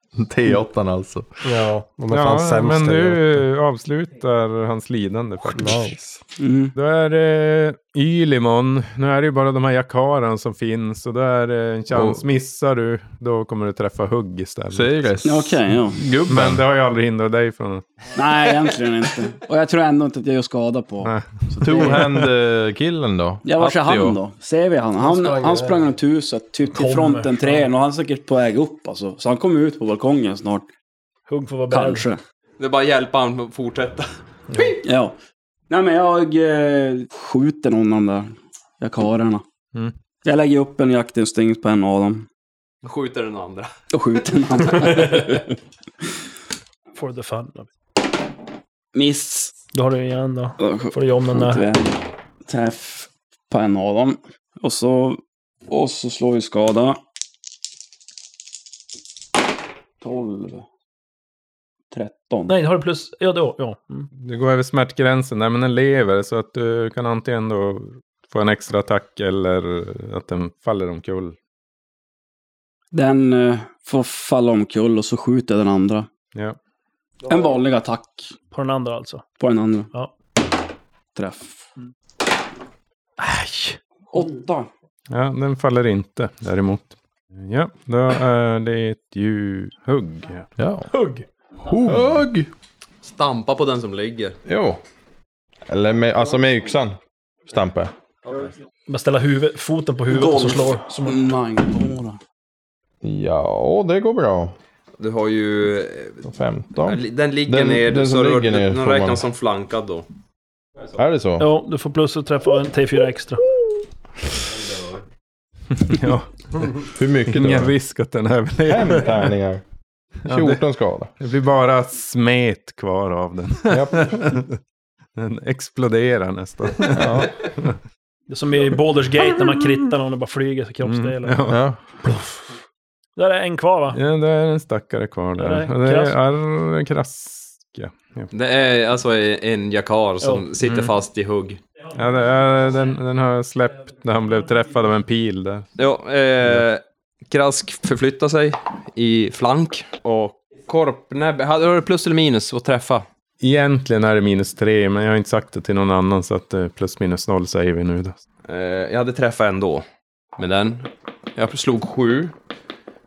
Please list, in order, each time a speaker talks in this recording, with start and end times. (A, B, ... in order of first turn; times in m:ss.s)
0:00.2-0:01.4 A
0:01.4-0:03.4 B
0:02.1-0:06.0 C
0:05.5-0:06.2 B
0:06.4-0:06.7 D
0:06.8-0:15.2 C
0:11.9-0:12.2 A
0:14.7-0:16.6 A
0:15.2-0:16.0 D
0:16.2-0:17.9 C
0:18.1-0:22.1 D
0:21.0-0:22.3 C
0:21.6-0:24.2 A
0:23.4-0:30.7 D
0:25.0-0:25.9 B
0:26.7-0:27.6 E
0:31.3-0:32.1 E
0:31.7-0:32.2 D
0:32.6-0:34.8 F
0:34.8-0:35.2 D
0:35.7-0:39.4 D
0:40.2-0:42.3 D
0:42.8-0:43.7 F
0:43.9-0:45.6 D
0:47.0-0:47.7 E
0:48.9-0:49.5 D
0:49.7-0:51.6 E
0:50.6-0:57.0 D
1:00.0-1:00.7 D
1:01.9-1:02.5 D
1:02.5-1:04.1 E
1:04.2-1:11.4 C
1:12.9-1:16.1 D
1:17.3-1:18.3 D
1:18.5-1:19.2 E
1:19.4-1:19.9 D
1:21.2-1:21.7 D
1:23.2-1:23.8 E
1:24.1-1:24.7 D
1:25.1-1:30.5 C
1:30.6-1:30.9 A
1:30.9-1:31.3 E
1:31.6-1:32.5 A
1:33.0-1:34.4 F
1:34.5-1:34.8 A
1:35.7-1:37.9 A
1:38.3-1:38.5 F
1:38.9-1:41.2 E
1:40.1-1:42.2 D
1:43.0-1:44.6 A
1:45.0-1:46.2 F
1:46.2-1:49.2 A
1:46.8-1:50.1 F
1:51.0-1:51.5 A
1:51.4-1:53.4 E
1:54.6-1:55.0 F
1:55.7-1:56.3 C
1:56.9-1:57.8 A
1:57.3-1:59.3 C
1:58.7-1:59.6 A
2:00.2-2:01.1 A
2:00.3-2:00.6 C
2:01.2-2:04.6 C
2:03.7-2:04.4 A
2:05.2-2:07.8 C
2:06.9-2:07.4 A
2:08.3-2:11.4 E
2:10.8-2:11.6 C
2:11.5-2:11.8 A
2:13.2-2:14.0 E
2:13.9-2:18.3 C
2:15.4-2:16.2 E
2:18.3-2:21.6 F
2:20.2-2:20.5 E
2:20.6-2:20.9 C
2:21.9-2:25.7 C
2:25.8-2:33.0 F
2:33.4-2:38.2 C
2:38.5-2:39.9 F
2:40.4-2:42.4 F